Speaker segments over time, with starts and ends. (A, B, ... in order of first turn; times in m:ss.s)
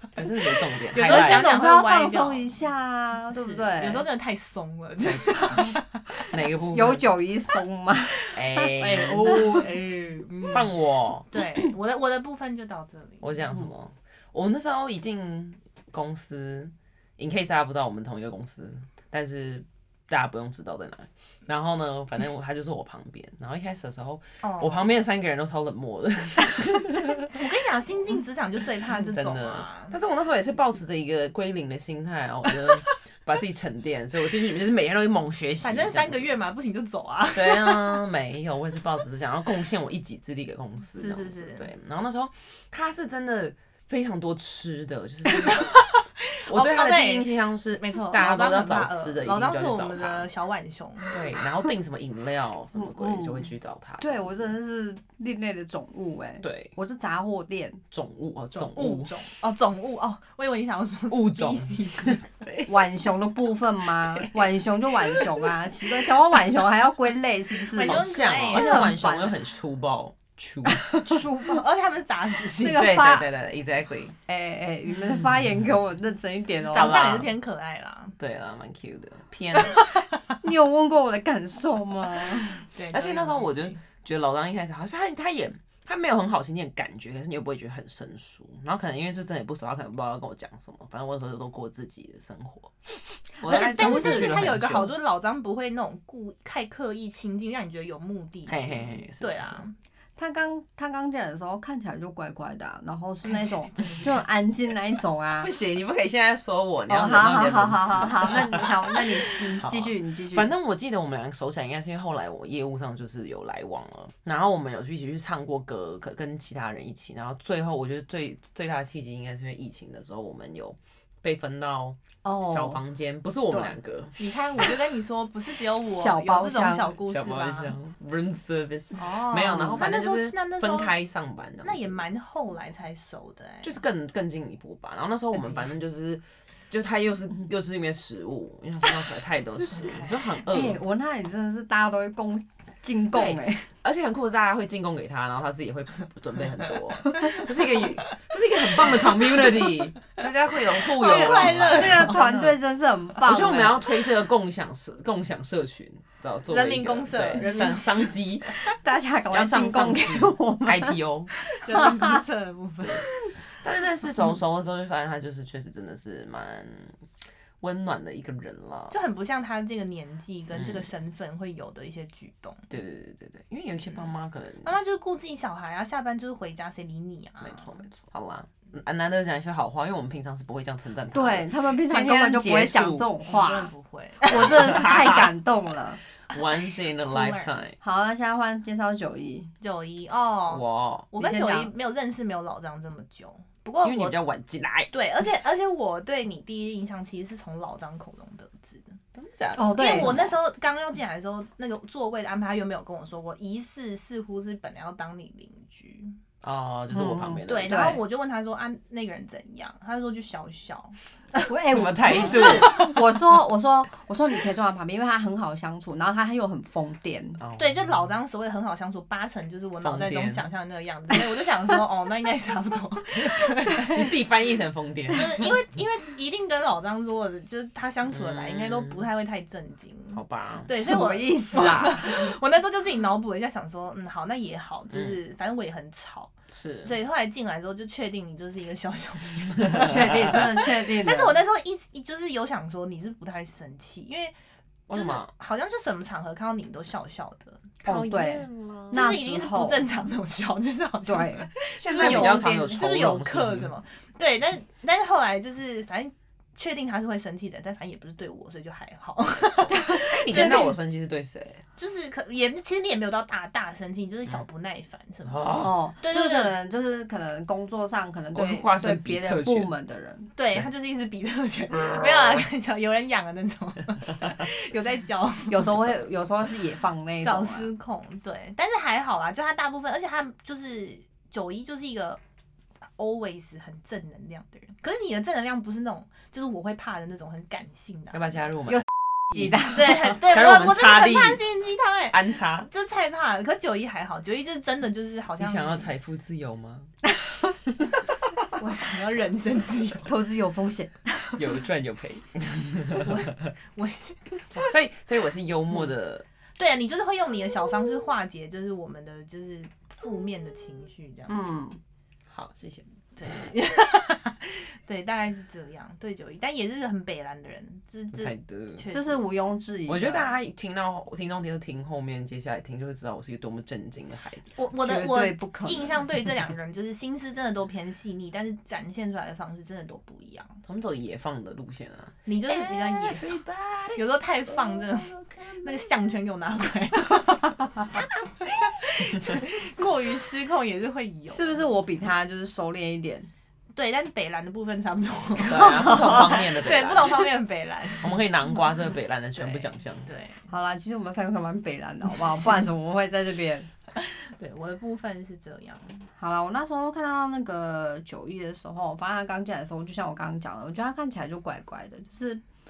0:00.1-0:01.5 A
0:00.9-0:02.5 B
0:01.0-0:04.0 C
0:03.3-0:06.0 B
0:05.0-0:05.4 A
0:06.3-0:07.1 A
0:06.7-0:08.2 C
0:08.3-0:09.6 A
0:08.3-0:10.7 B
0:10.5-0:11.3 A
0:11.3-0:13.5 B
0:13.2-0:27.3 A
0:24.4-0:24.9 B
0:27.3-0:29.9 B
0:29.1-0:36.3 A
0:35.6-0:38.0 B
0:37.3-0:45.8 A
0:40.9-0:41.7 B
0:45.4-0:51.2 B
0:46.5-0:50.3 A
0:51.1-0:54.5 A
0:52.8-0:53.4 C
0:54.0-0:57.8 C
0:56.4-0:56.7 A
0:57.9-0:59.1 A
0:58.5-1:02.2 B
1:01.1-1:02.9 A
1:02.7-1:09.3 C
1:07.7-1:09.0 B
1:07.8-1:11.1 A
1:10.7-1:11.2 C
1:11.0-1:12.9 B
1:12.5-1:13.3 C
1:12.7-1:14.1 A
1:14.3-1:17.0 C
1:16.7-1:18.1 B
1:16.7-1:17.3 A
1:18.2-1:19.8 A
1:19.7-1:20.0 B
1:20.4-1:22.6 C
1:22.7-1:23.8 B
1:22.9-1:32.7 A
1:33.4-1:34.9 A
1:33.4-1:39.7 B
1:33.5-1:34.4 C
1:38.5-1:39.6 A
1:40.2-1:45.5 C
1:43.3-1:44.0 B
1:45.4-2:04.7 A
1:46.9-1:50.5 C
2:02.2-2:02.8 C
2:03.5-2:03.8 C
2:04.2-2:07.8 B
2:05.8-2:06.9 C
2:07.1-2:12.0 A
2:09.0-2:11.0 B
2:09.4-2:09.8 C
2:11.6-2:13.8 B
2:13.6-2:20.8 A
2:15.3-2:15.7 C
2:19.7-2:20.3 B
2:20.5-2:23.7 C
2:23.1-2:32.6 A
2:27.2-2:27.9 B
2:29.0-2:29.7 B
2:30.8-2:32.3 B
2:31.0-2:33.8 C
2:33.2-2:38.5 A
2:36.5-2:38.2 B
2:38.5-2:42.2 C
2:39.3-2:41.3 A
2:41.6-2:43.1 B
2:43.6-2:47.0 A
2:47.6-2:49.0 A
2:48.9-2:52.7 B
2:50.5-2:50.9 A
2:52.7-2:54.7 A
2:54.6-2:57.8 B
2:57.4-3:03.1 A
3:01.1-3:03.7 C
3:03.2-3:04.8 B
3:04.2-3:06.0 C
3:04.3-3:05.3 A
3:06.3-3:07.7 A
3:07.1-3:07.6 B
3:07.8-3:09.5 C
3:09.6-3:14.2 B
3:10.5-3:11.1 A
3:11.2-3:11.7 C
3:13.8-3:14.9 A
3:14.9-3:19.0 B
3:19.1-3:20.4 A
3:19.6-3:20.2 C
3:19.8-3:26.2 B
3:26.4-3:28.0 A
3:26.9-3:28.0 C
3:27.4-3:31.4 B
3:31.4-3:37.4 C
3:31.6-3:32.9 A
3:32.3-3:32.8 B
3:37.4-3:37.9 A
3:37.6-3:44.2 B
3:39.8-3:40.5 A
3:43.9-3:45.5 A
3:45.1-3:56.3 B
3:48.1-3:49.0 A
3:50.1-3:50.7 A
3:50.8-3:52.3 C
3:56.5-3:57.0 A
3:56.8-4:04.3 B
3:59.6-4:00.4 A
3:59.7-4:01.4 C
4:04.9-4:05.3 A
4:04.9-4:07.7 B
4:07.8-4:09.8 C
4:07.8-4:09.0 A
4:08.9-4:20.8 B
4:11.0-4:11.5 C
4:11.8-4:13.7 A
4:12.0-4:12.4 C
4:19.7-4:20.7 C
4:20.0-4:21.6 A
4:21.8-4:26.5 B
4:25.2-4:25.7 A
4:25.6-4:30.3 C
4:28.3-4:29.7 A
4:30.4-4:35.8 B
4:35.5-4:37.7 C
4:37.2-4:42.2 B
4:43.0-4:48.4 B
4:48.1-4:51.4 A
4:48.7-4:49.8 C
4:49.6-4:55.9 B
4:52.1-4:52.7 A
4:55.4-4:56.9 A
4:58.6-5:00.1 B
5:00.0-5:01.4 C
5:01.4-5:03.5 A
5:03.0-5:04.7 B
5:04.6-5:06.2 A
5:06.6-5:11.4 B
5:11.3-5:11.8 C
5:12.3-5:12.8 A
5:13.2-5:19.3 B
5:18.1-5:18.8 A
5:18.9-5:20.3 C
5:19.9-5:24.5 A
5:24.5-5:30.6 B
5:24.8-5:26.0 C
5:30.6-5:34.0 A
5:32.2-5:33.4 B
5:33.9-5:42.1 B
5:34.6-5:35.8 A
5:41.3-5:43.3 C
5:43.7-5:48.2 B
5:45.4-5:47.2 A
5:45.8-5:46.3 C
5:48.0-5:50.1 A
5:49.4-5:50.5 B
5:50.5-5:53.7 C
5:52.3-5:52.6 B
5:54.0-5:56.0 B
5:56.2-6:02.4 C